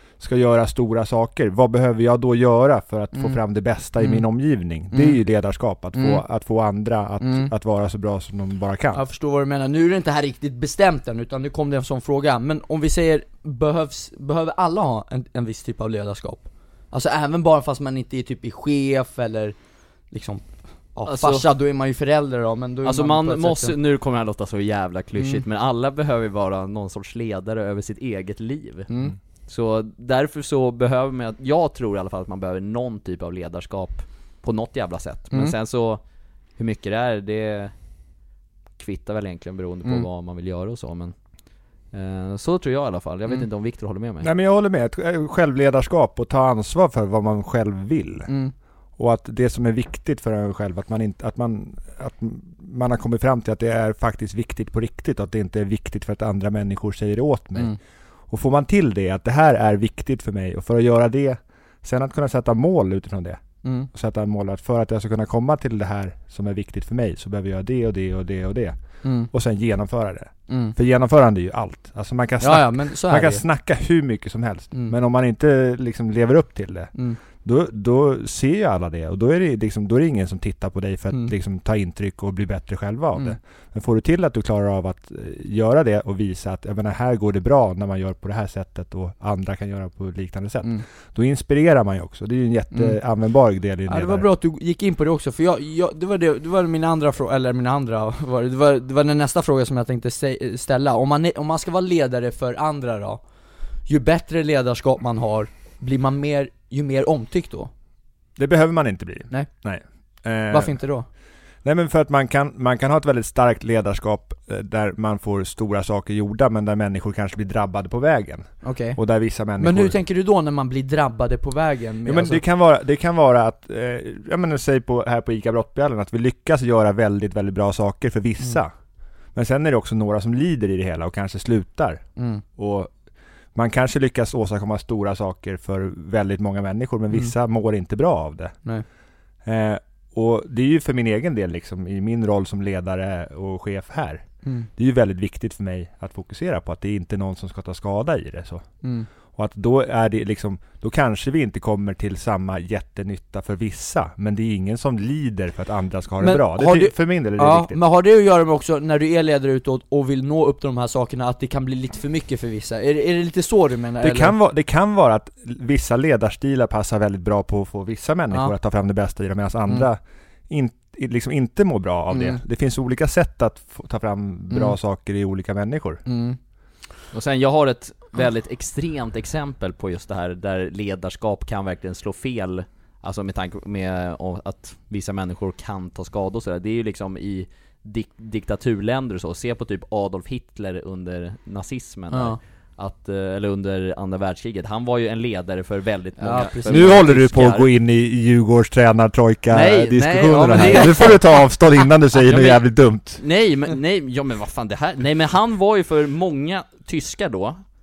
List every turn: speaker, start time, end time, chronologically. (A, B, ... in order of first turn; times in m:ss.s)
0:00.2-0:09.0 A
0:04.0-0:04.2 B
0:04.9-0:05.2 B
0:05.9-0:06.2 B
0:07.2-0:07.5 B
0:08.9-0:19.5 B
0:20.1-0:23.8 B
0:21.0-0:21.5 C
0:22.8-0:28.9 C
0:25.2-0:25.4 B
0:28.9-0:29.2 B
0:29.5-0:36.0 C
0:36.6-0:37.7 C
0:38.8-0:41.1 C
0:41.9-0:44.3 C
0:44.2-0:48.3 A
0:48.3-0:48.5 B
0:49.0-0:57.8 A
0:58.3-1:34.3 A
1:03.6-1:03.9 B
1:09.0-1:09.3 B
1:10.5-1:10.7 B
1:12.4-1:13.4 B
1:16.9-1:17.2 B
1:32.7-1:33.0 B
1:33.9-1:43.2 B
1:43.9-1:47.7 B
1:48.4-1:50.8 A
1:50.5-1:51.0 B
1:51.6-1:59.9 A
1:58.6-2:02.4 B
2:02.0-2:08.7 A
2:09.3-2:12.0 A
2:12.2-2:12.4 B
2:12.6-2:12.9 A
2:13.5-2:18.6 A
2:19.4-2:24.2 A
2:24.8-2:28.7 A
2:28.8-2:29.1 B
2:29.3-2:37.8 A
2:36.2-2:44.3 B
2:44.0-2:56.0 A
2:52.1-2:52.4 B
2:54.5-2:54.8 B
2:56.0-2:56.4 B
2:57.1-3:17.7 C
3:12.1-3:12.4 B
3:16.2-3:17.1 B
3:16.6-3:23.2 A
3:19.5-3:21.2 C
3:20.3-3:21.2 B
3:22.2-3:27.6 C